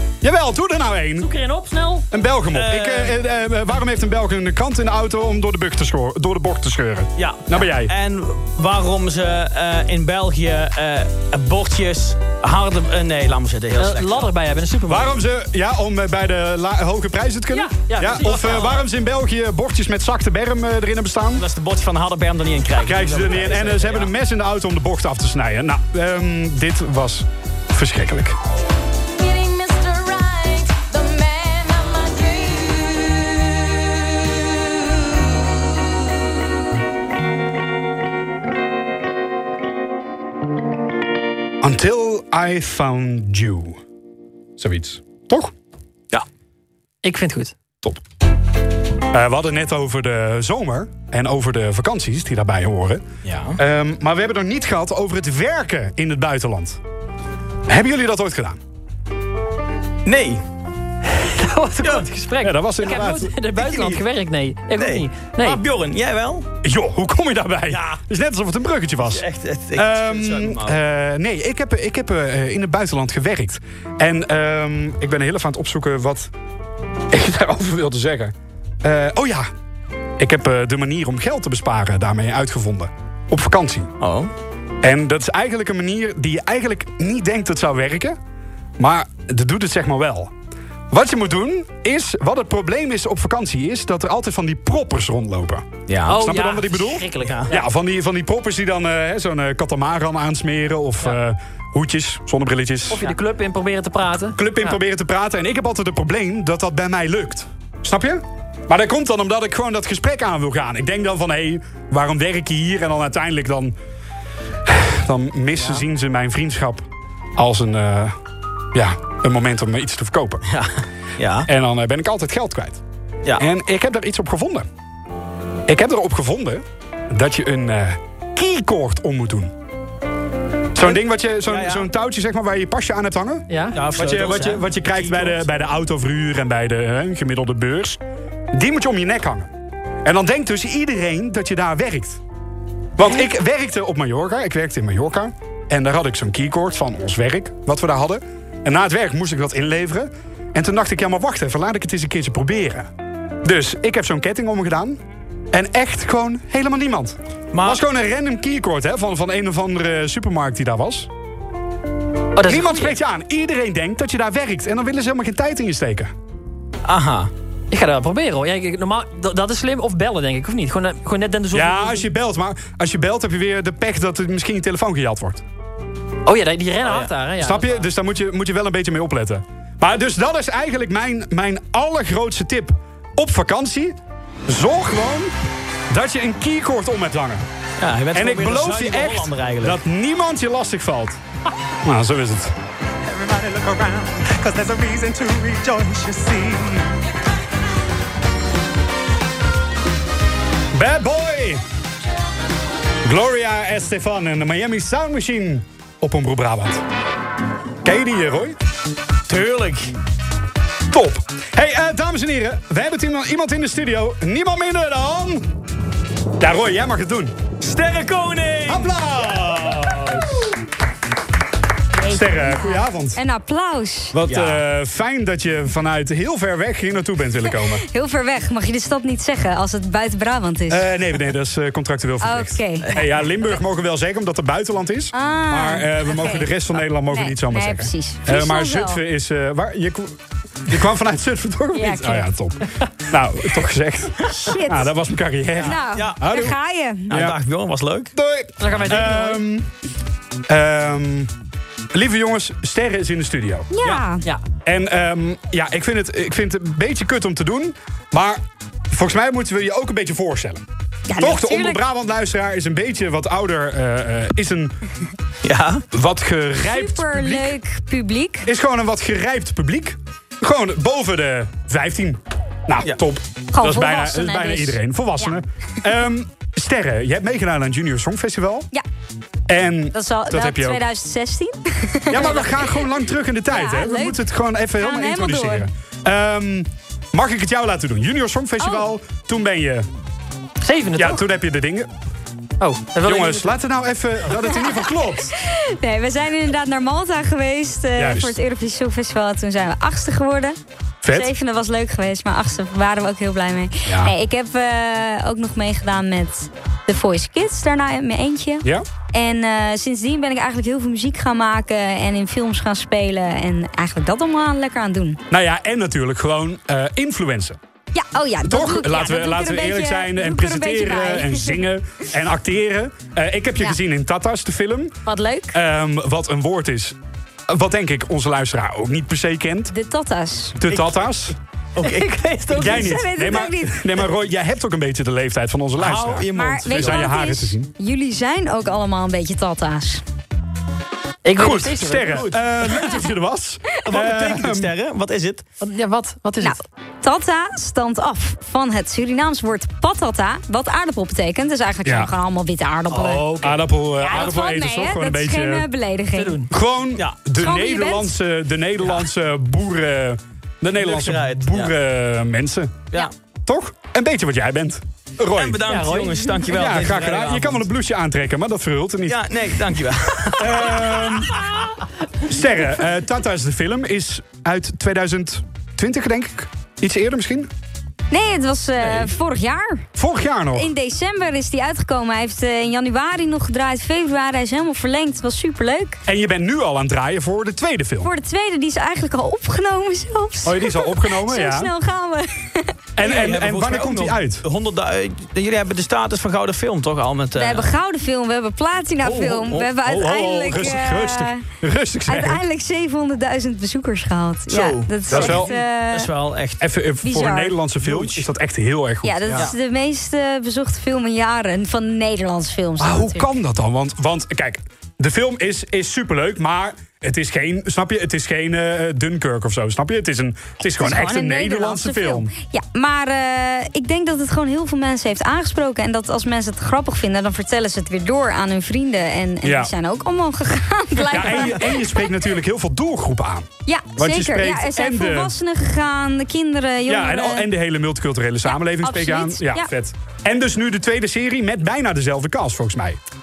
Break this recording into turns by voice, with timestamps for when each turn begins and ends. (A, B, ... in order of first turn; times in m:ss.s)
0:00.2-0:01.3 A
0:01.2-0:02.0 B
0:02.1-0:07.9 A
0:02.5-0:03.2 C
0:07.2-0:14.3 C
0:13.8-0:15.2 B
0:14.9-0:21.4 A
0:17.5-0:18.8 B
0:21.4-0:24.1 C
0:22.8-0:28.4 A
0:29.2-0:35.3 D
0:41.6-0:43.8 A
0:44.6-0:45.5 A
0:47.0-0:47.5 B
0:49.1-0:53.0 A
0:53.2-0:53.6 C
0:53.6-0:56.8 A
0:57.7-0:58.6 A
1:00.0-1:00.4 C
1:01.1-1:05.6 B
1:02.4-1:04.0 A
1:04.8-1:06.5 C
1:06.6-1:09.2 A
1:07.7-1:08.0 C
1:09.0-1:10.8 C
1:09.8-1:16.3 A
1:17.1-1:19.5 A
1:20.2-1:23.9 A
1:24.0-1:24.3 C
1:24.8-1:28.2 A
1:28.8-1:30.3 A
1:30.9-1:43.0 A
1:35.9-1:36.2 C
1:36.1-1:37.6 B
1:37.2-1:37.5 C
1:42.9-1:44.8 B
1:44.4-1:53.7 A
1:54.6-1:58.2 A
1:58.7-2:00.4 A
2:00.5-2:01.5 C
2:01.4-2:02.8 A
2:03.4-2:04.7 A
2:05.7-2:09.5 A
2:10.7-2:18.0 A
2:10.8-2:11.8 C
2:13.5-2:13.8 B
2:13.7-2:15.4 C
2:18.5-2:19.5 A
2:20.0-2:22.2 A
2:23.0-2:32.9 A
2:33.4-2:35.0 A
2:35.5-2:41.1 A
2:37.5-2:37.8 C
2:42.4-2:43.0 B
2:42.4-2:46.1 A
2:46.8-2:47.3 C
2:47.7-2:52.0 B
2:51.5-2:55.4 A
2:56.2-2:57.9 B
2:57.4-3:05.3 A
3:05.9-3:07.4 A
3:07.8-3:09.8 C
3:08.1-3:11.2 A
3:11.8-3:12.5 A
3:13.2-3:13.6 D
3:13.4-3:16.8 C
3:14.2-3:14.6 D
3:20.7-3:21.6 A
3:23.0-3:26.8 A
3:27.8-3:28.6 A
3:29.3-3:29.9 C
3:30.9-3:35.4 A
3:36.4-3:37.4 A
3:37.6-3:39.0 C
3:38.7-3:40.5 A
3:42.0-3:44.2 E
3:42.0-3:43.2 A
3:44.1-3:47.8 A
3:44.3-3:44.6 C
3:47.5-3:50.9 E
3:50.7-4:06.6 A
3:52.2-3:52.9 E
3:55.1-3:56.5 E
3:57.1-3:59.0 E
4:01.7-4:02.3 E
4:04.4-4:04.9 E
4:05.6-4:07.1 E
4:05.6-4:06.3 C
4:07.1-4:08.1 C
4:07.1-4:07.4 A
4:08.1-4:09.7 A
4:08.6-4:09.4 B
4:10.5-4:11.3 A
4:11.9-4:14.0 A
4:13.7-4:14.2 E
4:14.6-4:20.6 A
4:21.1-4:21.8 E
4:21.2-4:24.8 A
4:25.4-4:25.8 C
4:25.9-4:27.6 A
4:26.6-4:28.5 E
4:28.4-4:38.7 A
4:33.5-4:35.4 E
4:39.5-4:40.8 A
4:39.9-4:42.9 E
4:42.1-4:49.9 A
4:43.5-4:44.2 E
4:44.8-4:45.7 E
4:48.6-4:48.9 E
4:50.6-4:51.2 B
4:51.0-4:51.9 A
4:52.6-4:53.5 B
4:53.0-4:55.4 A
4:54.5-5:15.2 E
4:58.0-4:58.4 A
5:01.0-5:01.3 A
5:03.8-5:04.1 A
5:15.3-5:17.6 A
5:17.9-5:21.7 E
5:18.4-5:25.0 A
5:25.0-5:25.6 E
5:25.5-5:27.0 A
5:27.5-5:29.7 A
5:29.7-5:30.6 E
5:30.6-5:31.3 A
5:30.7-5:31.1 C
5:31.8-5:33.0 C
5:32.5-5:37.7 A
5:32.6-5:33.9 E
5:35.8-5:37.1 C
5:36.3-5:40.0 E
5:41.2-5:42.3 B
5:41.4-5:44.7 A
5:42.1-5:42.4 C
5:43.8-5:45.4 C
5:45.6-5:46.6 B
5:46.4-5:53.3 E
5:51.8-5:52.1 A
5:53.1-5:53.5 B
5:53.4-5:55.7 A
5:54.0-5:56.4 E
5:56.1-5:56.5 B
5:56.5-6:02.8 A
5:57.0-5:57.2 C
5:57.4-5:58.2 E
6:00.8-6:01.7 C
6:03.4-6:05.6 A
6:05.3-6:07.6 C
6:05.6-6:06.4 B
6:06.5-6:09.2 A
6:09.1-6:11.1 C
6:10.3-6:11.4 A
6:12.2-6:17.5 A
6:18.1-6:19.9 E
6:20.0-6:20.7 A
6:20.5-6:26.0 E
6:26.0-6:28.1 A
6:28.0-6:32.7 E
6:30.4-6:31.7 A
6:33.0-6:34.4 A
6:33.0-6:37.7 C
6:37.3-6:41.4 E
6:39.0-6:40.8 C
6:39.8-6:42.4 A
6:42.1-6:46.1 E
6:44.5-6:46.6 C
6:45.1-6:45.5 A
6:46.6-6:49.5 A
6:47.0-6:47.6 E
6:47.8-6:48.2 C
6:49.0-6:53.3 E
6:52.8-7:02.3 A
7:00.7-7:12.1 E
7:09.4-7:09.7 A
7:11.0-7:15.3 A
7:13.6-7:17.5 E
7:16.9-7:23.0 A
7:18.5-7:19.7 E